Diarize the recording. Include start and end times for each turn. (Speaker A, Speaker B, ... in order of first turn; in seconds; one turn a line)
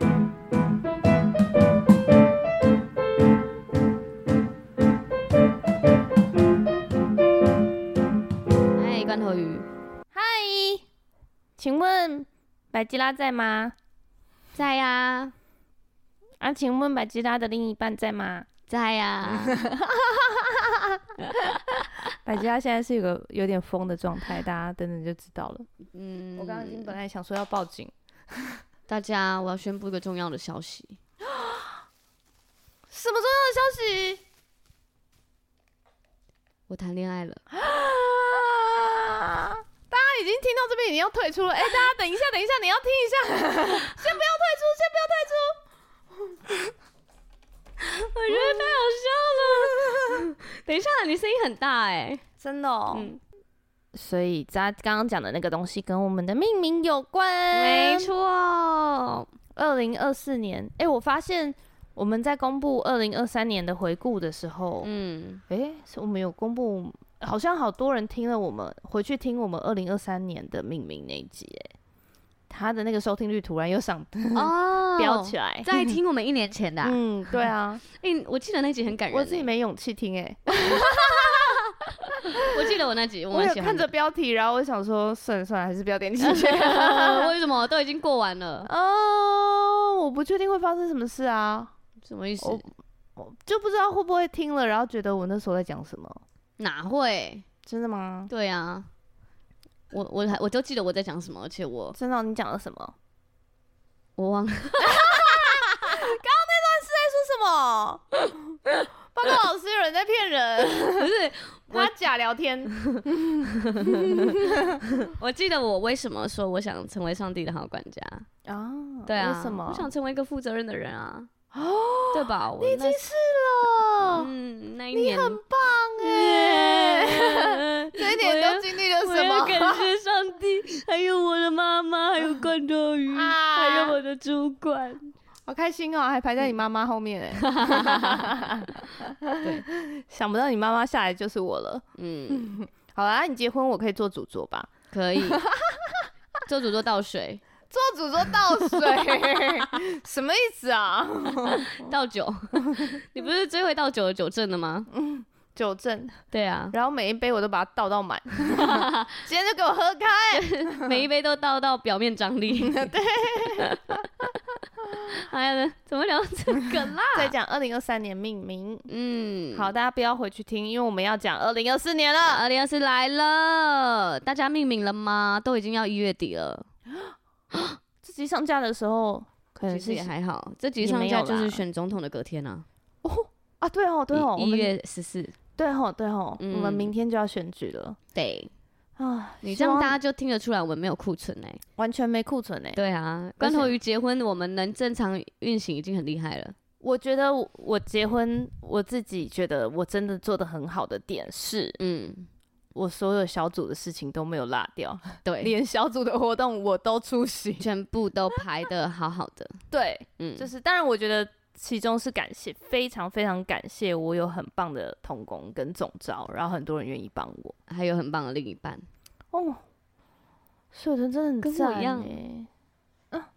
Speaker A: 8.7-9.7
Speaker B: 10.1-10.8
Speaker B: 11.6-13.7
Speaker A: 14.5-15.3
Speaker B: 16.4-18.5
Speaker A: 18.7-19.6
Speaker B: 19.3-21.5
Speaker A: 21.6-21.8
Speaker B: 22.2-25.7
Speaker A: 25.9-27.0
Speaker B: 26.4-28.6
Speaker A: 28.9-31.0
Speaker B: 31.2-31.8
Speaker B: 32.9-34.2
Speaker A: 36.7-37.4
Speaker B: 37.5-45.6
Speaker A: 47.8-52.2
Speaker B: 48.3-48.7
Speaker B: 49.6-50.2
Speaker B: 52.4-53.1
Speaker A: 52.9-53.2
Speaker B: 53.9-58.1
Speaker A: 57.5-59.3
Speaker B: 59.5-64.9
Speaker A: 64.8-65.4
Speaker B: 65.5-71.7
Speaker B: 72.5-75.7
Speaker A: 74.3-77.0
Speaker B: 76.8-77.8
Speaker A: 77.9-79.5
Speaker B: 79.1-81.6
Speaker A: 80.5-83.8
Speaker B: 82.2-82.7
Speaker B: 83.3-87.3
Speaker A: 86.2-88.7
Speaker B: 88.6-91.7
Speaker A: 92.0-92.7
Speaker B: 92.4-92.7
Speaker B: 93.2-96.2
Speaker A: 96.6-97.4
Speaker B: 97.7-98.3
Speaker A: 98.3-98.9
Speaker A: 99.9-102.0
Speaker B: 101.9-102.9
Speaker A: 104.2-105.7
Speaker B: 104.8-111.1
Speaker A: 110.9-111.9
Speaker B: 111.7-114.8
Speaker A: 112.7-118.3
Speaker B: 118.5-119.9
Speaker A: 119.0-121.3
Speaker B: 121.5-124.3
Speaker A: 122.1-123.0
Speaker A: 124.1-125.4
Speaker B: 124.9-129.9
Speaker A: 126.0-135.1
Speaker B: 133.1-134.0
Speaker B: 135.5-146.1
Speaker A: 137.4-138.3
Speaker A: 139.4-139.7
Speaker A: 141.9-142.5
Speaker A: 144.9-145.4
Speaker A: 146.4-147.4
Speaker B: 147.7-151.9
Speaker A: 151.6-154.9
Speaker B: 154.9-161.0
Speaker A: 156.3-156.7
Speaker A: 158.5-159.2
Speaker A: 160.3-162.9
Speaker B: 162.6-164.1
Speaker A: 163.4-164.4
Speaker A: 165.0-167.3
Speaker B: 167.1-168.9
Speaker A: 168.9-169.7
Speaker B: 169.5-172.4
Speaker A: 172.2-176.7
Speaker A: 177.5-177.8
Speaker B: 178.0-180.1
Speaker A: 179.7-182.7
Speaker B: 180.8-181.6
Speaker B: 183.0-184.7
Speaker A: 184.1-185.4
Speaker B: 185.6-188.0
Speaker A: 186.4-186.9
Speaker A: 188.1-188.5
Speaker B: 189.0-190.0
Speaker A: 189.4-191.6
Speaker B: 191.8-192.8
Speaker A: 192.7-196.5
Speaker B: 193.4-193.7
Speaker B: 196.8-201.8
Speaker A: 201.8-202.3
Speaker B: 202.7-207.7
Speaker A: 205.2-205.5
Speaker A: 207.6-209.6
Speaker B: 209.7-217.5
Speaker A: 210.2-210.5
Speaker A: 217.7-218.8
Speaker B: 219.3-219.6
Speaker B: 220.7-222.5
Speaker A: 221.4-222.2